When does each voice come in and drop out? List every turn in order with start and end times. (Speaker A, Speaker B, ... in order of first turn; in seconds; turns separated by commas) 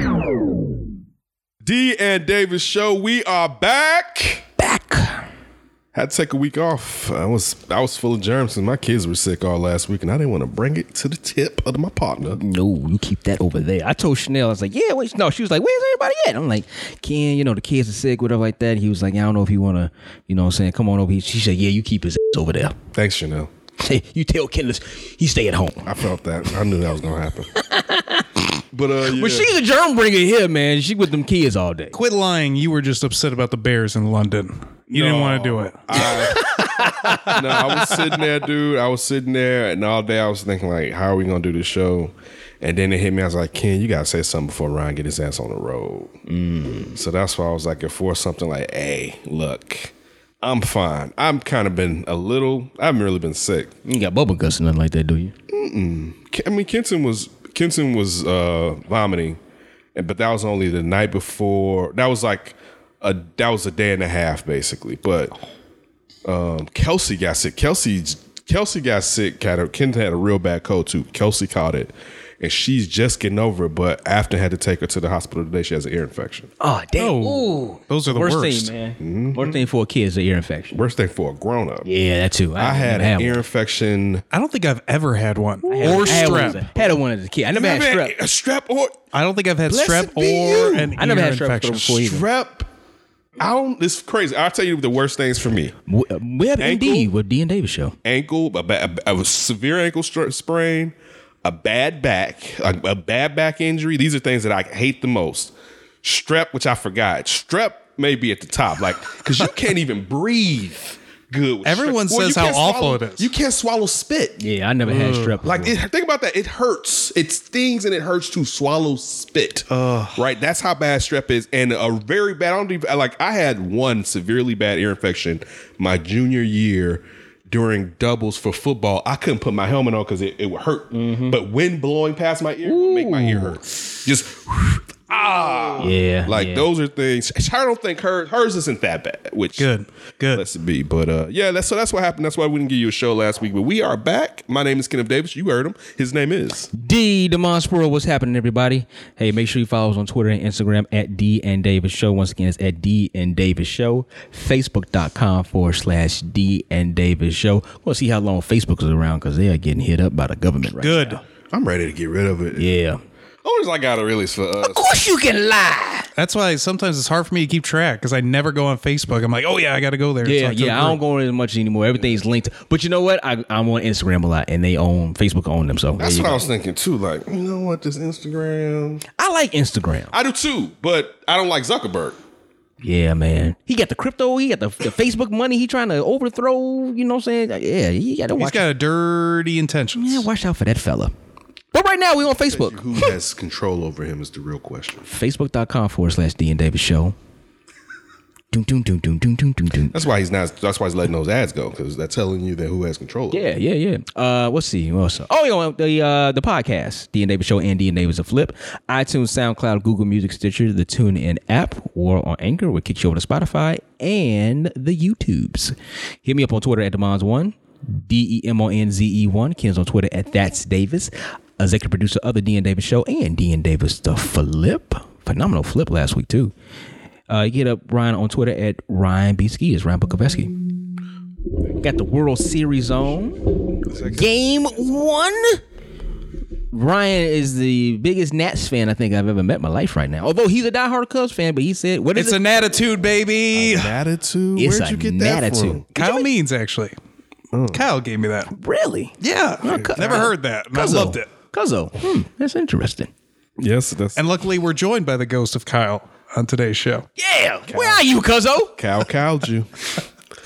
Speaker A: 1.6-4.4, Speaker B: 4.6-5.2, Speaker A: 5.9-12.4, Speaker B: 12.4-22.8, Speaker A: 22.9-23.5, Speaker B: 23.8-25.9, Speaker A: 25.8-27.5, Speaker B: 27.6-28.4, Speaker A: 28.7-29.5, Speaker B: 29.0-31.9, Speaker C: 31.9-36.1, Speaker A: 34.9-36.4, Speaker B: 36.0-37.8, Speaker A: 37.2-46.1, Speaker B: 46.3-47.0, Speaker A: 46.9-53.7, Speaker B: 53.8-55.3, Speaker A: 55.5-59.4, Speaker A: 59.9-65.3, Speaker A: 66.2-76.5, Speaker B: 76.6-80.8, Speaker C: 77.0-78.7, Speaker A: 79.0-79.6, Speaker A: 80.7-81.9, Speaker B: 81.8-83.4, Speaker A: 82.5-84.2, Speaker C: 84.3-86.6, Speaker B: 85.6-88.2, Speaker A: 85.7-87.0, Speaker A: 87.5-89.0, Speaker C: 89.1-92.0, Speaker A: 89.7-91.0, Speaker B: 90.9-92.2, Speaker A: 92.0-92.7, Speaker A: 93.4-95.7, Speaker B: 95.9-97.9, Speaker A: 96.6-97.1, Speaker A: 98.0-114.4, Speaker C: 111.6-113.3, Speaker B: 114.4-115.7, Speaker C: 114.8-115.4, Speaker A: 115.4-139.7, Speaker C: 119.7-120.2, Speaker B: 130.9-131.4, Speaker B: 132.6-133.6, Speaker B: 135.8-136.7, Speaker C: 139.6-140.4, Speaker A: 140.3-146.7, Speaker B: 146.7-161.2, Speaker C: 160.8-161.2, Speaker A: 161.5-162.6, Speaker B: 162.6-163.0, Speaker A: 163.4-164.9, Speaker B: 164.6-166.1, Speaker C: 166.2-171.0, Speaker B: 170.2-176.4, Speaker A: 176.0-179.0, Speaker B: 179.2-180.1, Speaker A: 180.1-182.2, Speaker B: 182.8-188.7, Speaker C: 188.3-190.2, Speaker B: 189.9-191.1, Speaker B: 191.7-192.8, Speaker A: 192.3-195.1, Speaker B: 195.1-197.2, Speaker B: 198.5-200.0, Speaker A: 199.9-203.5, Speaker B: 203.3-226.5, Speaker B: 227.3-230.5, Speaker B: 231.8-233.4, Speaker A: 233.8-234.8, Speaker B: 234.1-235.6, Speaker B: 236.7-242.4, Speaker C: 242.1-243.9, Speaker A: 243.5-245.8, Speaker B: 244.6-246.3, Speaker C: 245.9-246.9, Speaker A: 247.5-247.8, Speaker C: 247.7-248.5, Speaker B: 248.5-253.1, Speaker C: 249.2-251.3, Speaker A: 253.6-254.3, Speaker C: 254.1-257.1, Speaker B: 257.2-258.8, Speaker A: 257.7-258.0, Speaker A: 258.8-259.7